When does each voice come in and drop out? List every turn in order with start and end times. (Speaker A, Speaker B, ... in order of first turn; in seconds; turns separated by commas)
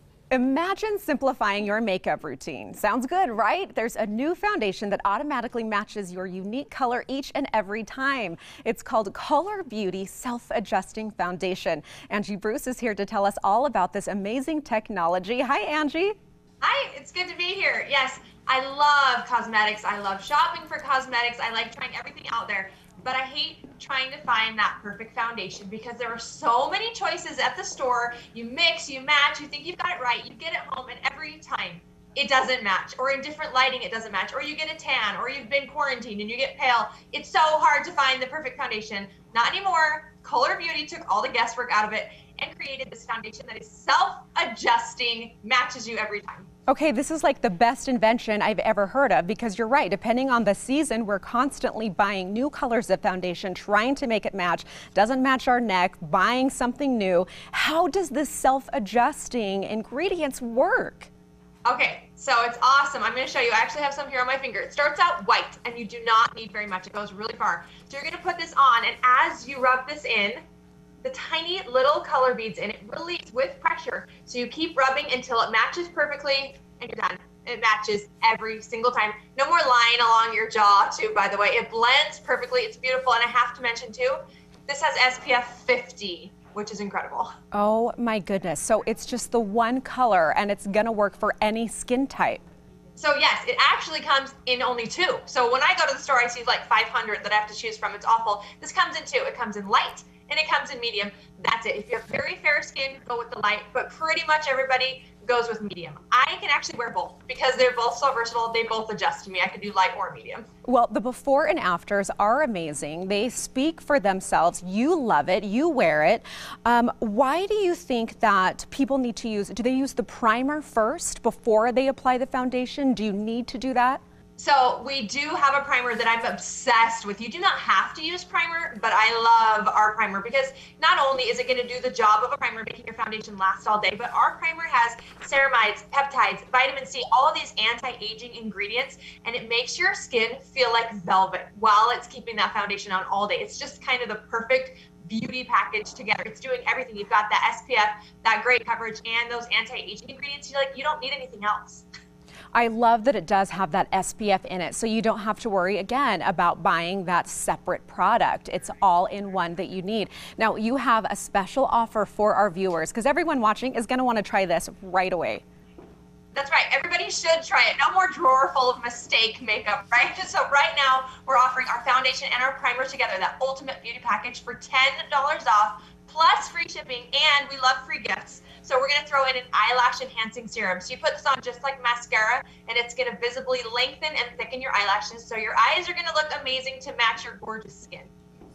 Speaker A: 0.3-16.1, Speaker B: 16.6-46.5, Speaker A: 46.7-61.1, Speaker B: 61.6-70.4, Speaker B: 71.0-87.3, Speaker A: 87.5-92.4, Speaker B: 93.0-110.5, Speaker A: 110.6-124.0, Speaker B: 124.4-151.8, Speaker A: 152.5-165.4, Speaker B: 166.3-188.1